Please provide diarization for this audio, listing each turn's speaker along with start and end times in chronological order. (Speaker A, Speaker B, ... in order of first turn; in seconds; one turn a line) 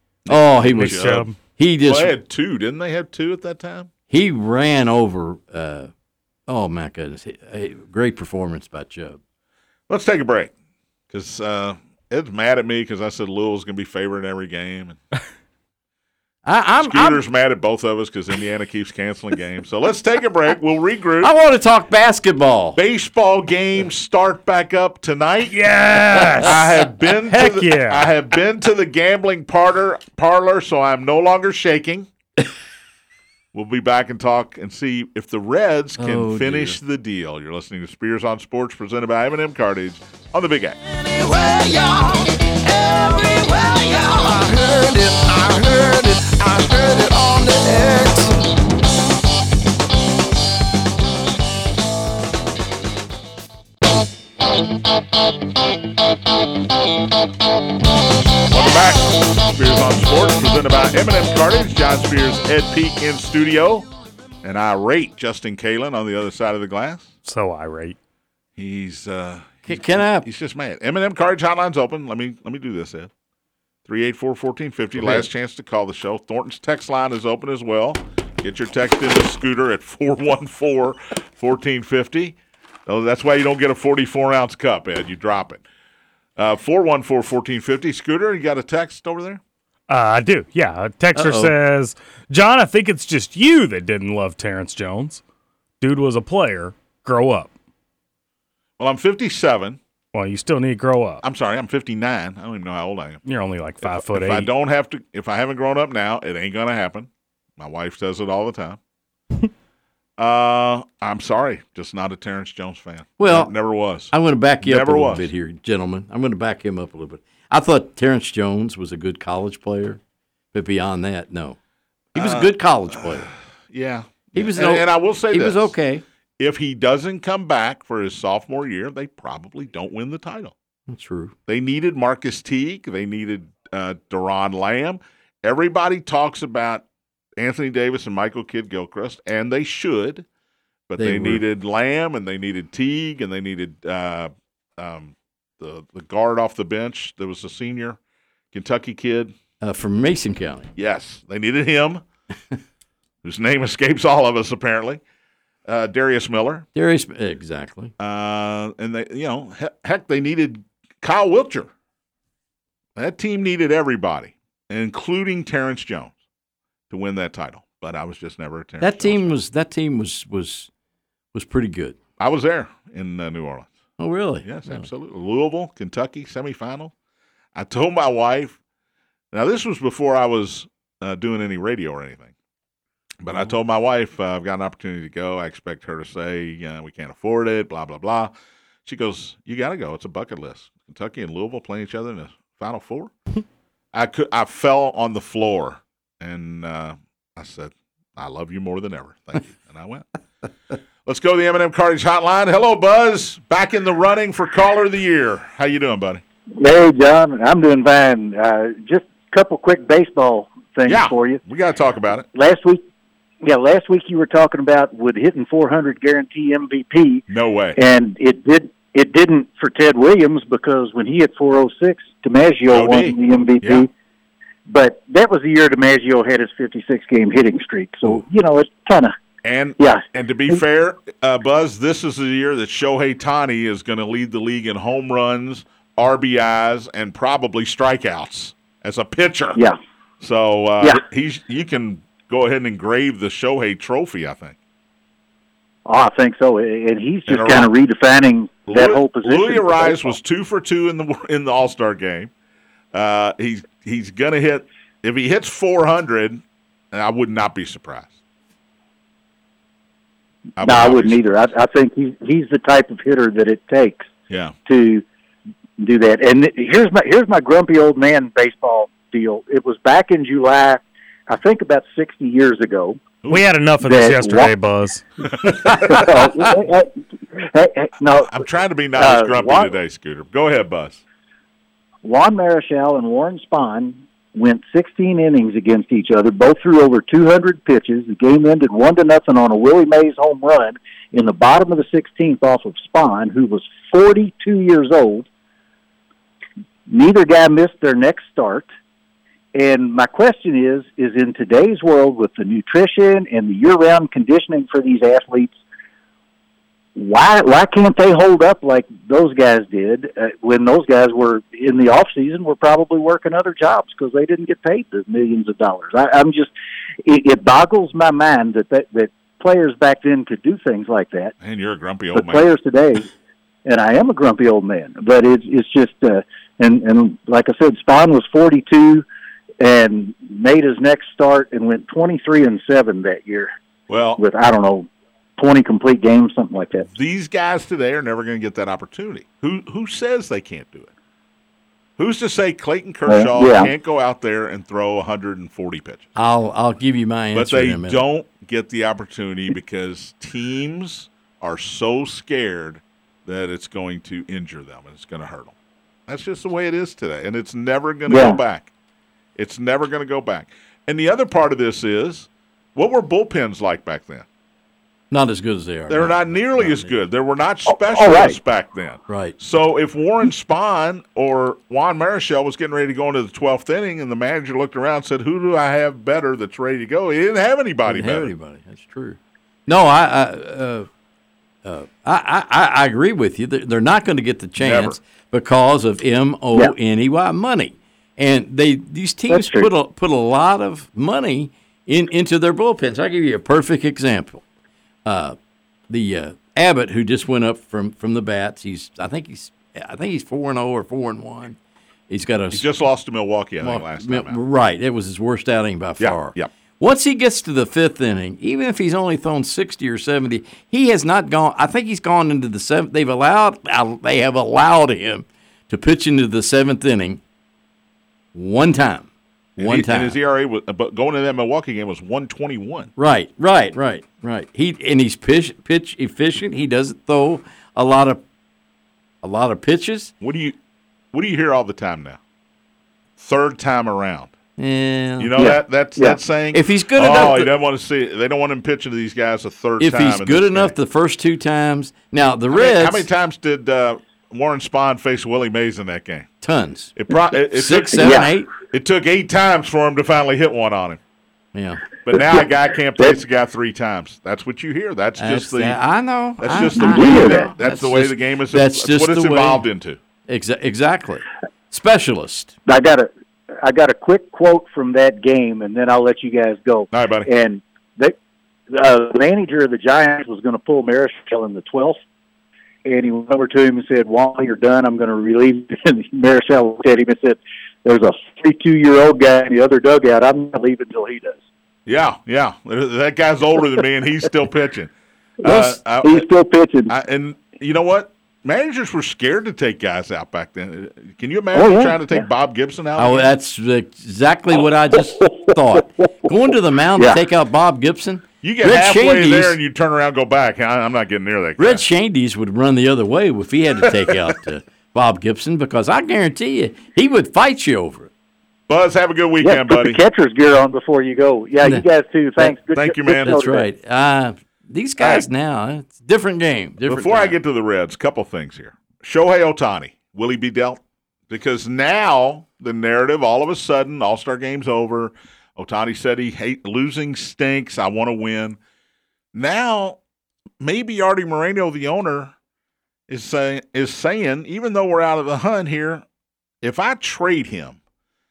Speaker A: 0.2-1.3
Speaker B: 0.3-2.1
Speaker C: 0.8-1.3
Speaker A: 1.8-3.9
Speaker B: 4.1-5.9
Speaker B: 6.5-9.2
Speaker A: 9.9-10.5
Speaker A: 11.1-15.0
Speaker B: 16.4-17.2
Speaker A: 16.8-21.3
Speaker B: 21.2-22.8
Speaker A: 22.8-25.6
Speaker C: 25.5-28.1
Speaker A: 26.3-32.1
Speaker A: 33.5-40.8
Speaker B: 36.0-36.8
Speaker D: 40.9-48.5
Speaker A: 58.5-63.9
Speaker A: 64.4-67.1
Speaker C: 67.2-68.0
Speaker A: 68.5-73.1
Speaker B: 69.7-70.3
Speaker A: 73.8-85.6
Speaker A: 86.3-89.4
Speaker C: 89.9-95.2
Speaker B: 91.1-91.5
Speaker C: 95.8-97.5
Speaker A: 98.8-99.8
Speaker C: 100.1-101.2
Speaker A: 101.2-103.2
Speaker C: 103.2-104.5
Speaker A: 103.8-108.8
Speaker A: 110.2-115.3
Speaker B: 113.2-113.5
Speaker B: 114.1-120.0
Speaker B: 120.5-121.6
Speaker B: 122.1-123.3
Speaker A: 122.1-125.7
Speaker B: 124.3-126.0
Speaker A: 126.4-130.5
Speaker B: 130.9-131.3
Speaker A: 131.5-136.8
Speaker A: 137.4-140.2
Speaker A: 140.9-148.0
Speaker B: 141.0-141.4
Speaker A: 148.5-149.3
Speaker B: 149.6-150.7
Speaker A: 150.8-152.0
Speaker A: 153.2-155.0
Speaker A: 155.7-156.7
Speaker B: 156.7-157.9
Speaker A: 158.0-161.7
Speaker A: 162.9-166.1
Speaker A: 166.9-169.4
Speaker B: 168.8-170.7
Speaker B: 171.3-172.0
Speaker A: 172.2-173.7
Speaker B: 174.0-174.8
Speaker A: 174.4-176.9
Speaker A: 177.5-178.6
Speaker A: 179.3-182.3
Speaker A: 183.2-188.3
Speaker A: 188.8-193.1
Speaker A: 193.9-200.1
Speaker A: 201.0-206.2
Speaker E: 206.6-211.4
Speaker A: 210.8-212.2
Speaker E: 212.3-212.8
Speaker E: 213.4-217.2
Speaker A: 217.3-217.8
Speaker E: 217.8-223.9
Speaker A: 222.7-223.8
Speaker E: 224.7-229.1
Speaker A: 229.4-239.6
Speaker A: 240.2-244.6
Speaker E: 245.8-250.2
Speaker A: 247.3-247.7
Speaker A: 248.7-252.3
Speaker A: 252.9-258.1
Speaker A: 260.6-261.2
Speaker E: 260.6-264.1
Speaker A: 264.3-264.5
Speaker E: 264.7-265.0
Speaker E: 265.8-273.0
Speaker C: 273.3-275.0
Speaker E: 273.8-274.5
Speaker A: 275.4-276.3
Speaker E: 275.5-278.4
Speaker A: 278.2-281.0
Speaker E: 278.9-279.7
Speaker E: 282.0-295.3
Speaker E: 296.9-298.7
Speaker E: 299.5-305.6
Speaker E: 306.9-316.5
Speaker E: 317.0-321.3
Speaker A: 321.4-322.4
Speaker E: 322.1-323.1
Speaker E: 323.6-329.0
Speaker E: 329.6-333.5
Speaker A: 333.9-334.2
Speaker E: 334.2-336.9
Speaker A: 336.9-340.9
Speaker A: 342.0-346.1
Speaker E: 343.1-343.7
Speaker B: 346.1-348.0
Speaker A: 347.3-355.5
Speaker A: 356.1-358.7
Speaker E: 358.1-358.4
Speaker A: 359.4-364.2
Speaker B: 365.1-366.9
Speaker A: 365.9-378.3
Speaker E: 367.7-368.4
Speaker B: 369.1-369.4
Speaker B: 377.9-380.9
Speaker B: 381.6-394.4
Speaker A: 384.6-385.0
Speaker E: 389.3-389.7
Speaker B: 395.1-395.4
Speaker B: 395.9-401.6
Speaker B: 402.1-402.6
Speaker A: 402.5-404.4
Speaker B: 403.6-417.2
Speaker A: 406.0-406.5
Speaker B: 418.3-420.1
Speaker A: 419.6-422.9
Speaker B: 423.0-428.2
Speaker B: 429.2-430.1
Speaker A: 430.2-430.6
Speaker A: 431.1-432.2
Speaker A: 433.2-434.3
Speaker B: 434.6-435.3
Speaker A: 435.2-440.7
Speaker E: 435.3-436.2
Speaker B: 436.5-437.5
Speaker B: 439.8-443.1
Speaker A: 442.5-446.3
Speaker B: 446.4-446.9
Speaker A: 446.9-451.0
Speaker B: 447.5-448.5
Speaker E: 447.9-448.3
Speaker B: 451.5-451.8
Speaker A: 452.0-455.8
Speaker B: 455.2-459.6
Speaker A: 456.4-460.0
Speaker E: 456.7-457.5
Speaker B: 460.3-462.5
Speaker E: 462.7-463.1
Speaker E: 463.6-468.1
Speaker A: 466.9-467.3
Speaker E: 468.7-472.0
Speaker E: 472.8-481.4
Speaker A: 481.9-484.9
Speaker A: 485.4-486.2
Speaker E: 485.4-486.9
Speaker A: 486.9-493.3
Speaker E: 491.5-492.2
Speaker B: 492.9-499.6
Speaker E: 495.2-495.8
Speaker A: 498.4-501.8
Speaker B: 501.6-508.1
Speaker A: 503.8-504.4
Speaker A: 508.7-510.0
Speaker E: 509.4-513.7
Speaker A: 512.4-513.4
Speaker B: 513.0-517.4
Speaker A: 516.9-528.6
Speaker A: 529.3-530.0
Speaker A: 530.6-532.3
Speaker A: 533.1-536.0
Speaker A: 536.6-537.8